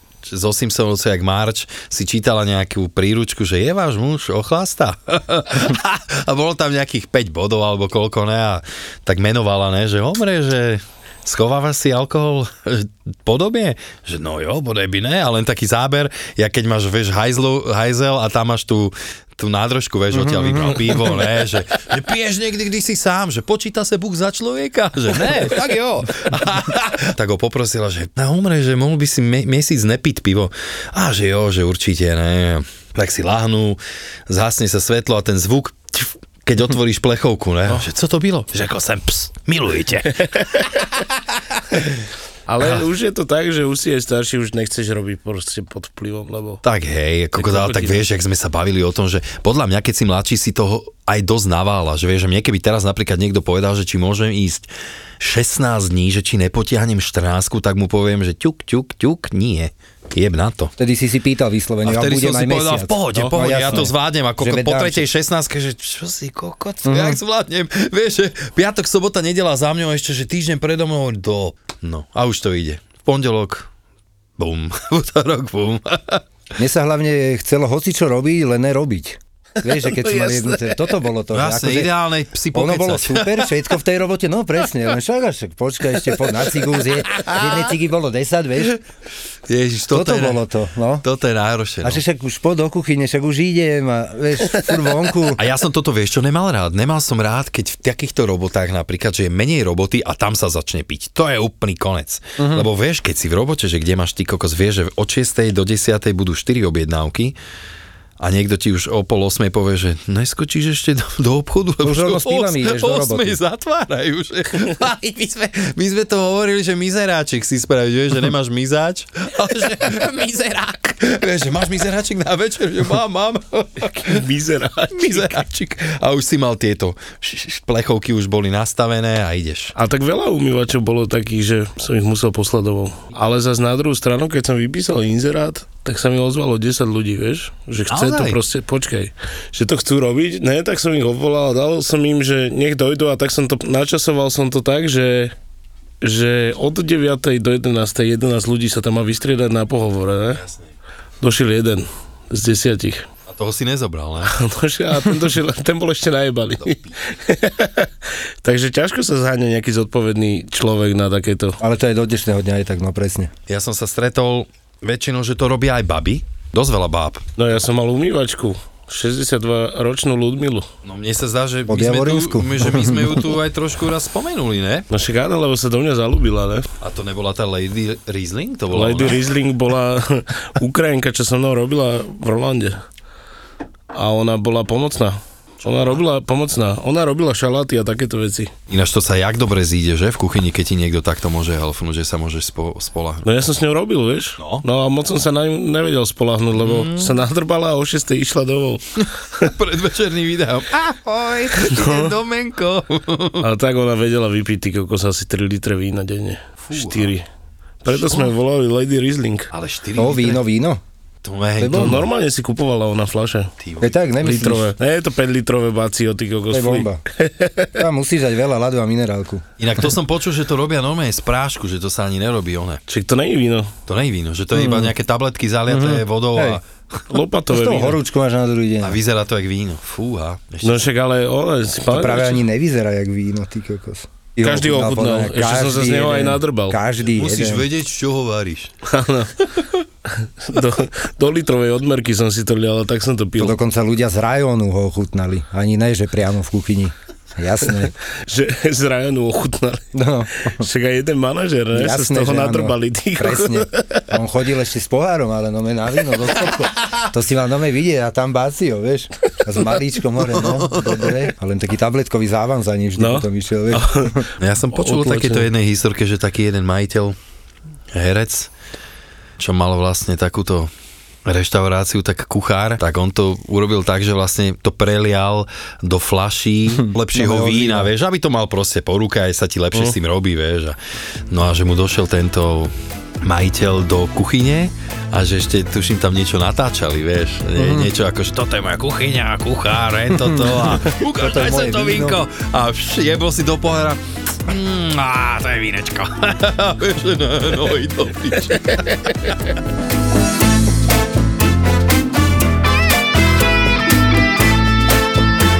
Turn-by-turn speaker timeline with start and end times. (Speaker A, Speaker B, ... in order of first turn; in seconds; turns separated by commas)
Speaker A: 0.2-40.4, Speaker B: 20.1-21.1, Speaker C: 40.1-40.7, Speaker C: 42.5-46.6, Speaker A: 46.6-60.7, Speaker C: 47.4-48.0, Speaker B: 60.8-65.1, Speaker A: 61.8-73.7, Speaker C: 63.1-63.9, Speaker B: 66.8-67.2, Speaker A: 74.4-76.2, Speaker B: 76.6-81.9, Speaker C: 79.7-80.8, Speaker A: 81.3-83.5, Speaker B: 82.5-88.8, Speaker A: 87.2-87.5, Speaker A: 89.5-90.4, Speaker B: 89.9-91.0, Speaker A: 91.0-92.0, Speaker B: 91.8-95.4, Speaker A: 95.4-107.3, Speaker B: 102.4-102.7, Speaker A: 108.2-124.2, Speaker B: 111.8-113.4, Speaker C: 123.8-125.4, Speaker A: 124.9-129.7, Speaker C: 129.7-145.3, Speaker A: 137.9-138.4, Speaker C: 146.0-150.4, Speaker A: 150.4-150.6, Speaker C: 151.2-153.1, Speaker A: 153.3-154.3, Speaker C: 154.3-157.9, Speaker A: 156.6-156.9, Speaker C: 158.4-161.6, Speaker B: 161.6-163.3, Speaker A: 163.5-167.2, Speaker C: 167.4-170.7, Speaker A: 170.8-174.9, Speaker B: 171.7-173.2, Speaker C: 174.9-176.7, Speaker A: 176.8-179.2, Speaker C: 178.7-182.8, Speaker C: 183.9-188.5, Speaker A: 188.7-193.3, Speaker C: 193.2-198.8, Speaker A: 194.4-194.6, Speaker A: 196.6-197.2, Speaker A: 199.4-203.4, Speaker C: 201.6-202.1, Speaker C: 203.4-207.2, Speaker A: 206.7-207.1, Speaker C: 207.8-209.5, Speaker A: 207.9-208.3, Speaker A: 209.5-210.4, Speaker B: 209.9-210.8, Speaker A: 211.2-212.0, Speaker B: 211.6-212.0, Speaker C: 211.7-213.5, Speaker A: 213.6-213.9, Speaker B: 213.8-214.7, Speaker C: 214.2-217.8, Speaker B: 216.5-217.0, Speaker B: 217.8-219.4, Speaker A: 219.6-222.8, Speaker C: 222.9-223.7, Speaker A: 223.9-226.6, Speaker B: 224.5-224.9, Speaker B: 225.7-226.6, Speaker C: 227.1-228.0, Speaker B: 227.5-229.0, Speaker A: 228.8-230.8, Speaker C: 230.6-232.4, Speaker B: 231.9-237.7, Speaker C: 234.4-236.8, Speaker A: 237.1-238.7, Speaker C: 238.8-243.6, Speaker B: 243.4-247.9, Speaker C: 248.2-249.9, Speaker B: 249.9-250.6, Speaker C: 250.4-254.1, Speaker B: 251.7-264.2, Speaker A: 260.4-261.1, Speaker C: 263.0-265.5, Speaker A: 264.4-267.2, Speaker A: 267.9-268.5, Speaker A: 269.4-270.7, Speaker A: 271.2-280.8, Speaker B: 276.8-277.9, Speaker A: 281.3-299.3, Speaker B: 287.6-287.9, Speaker B: 290.1-292.2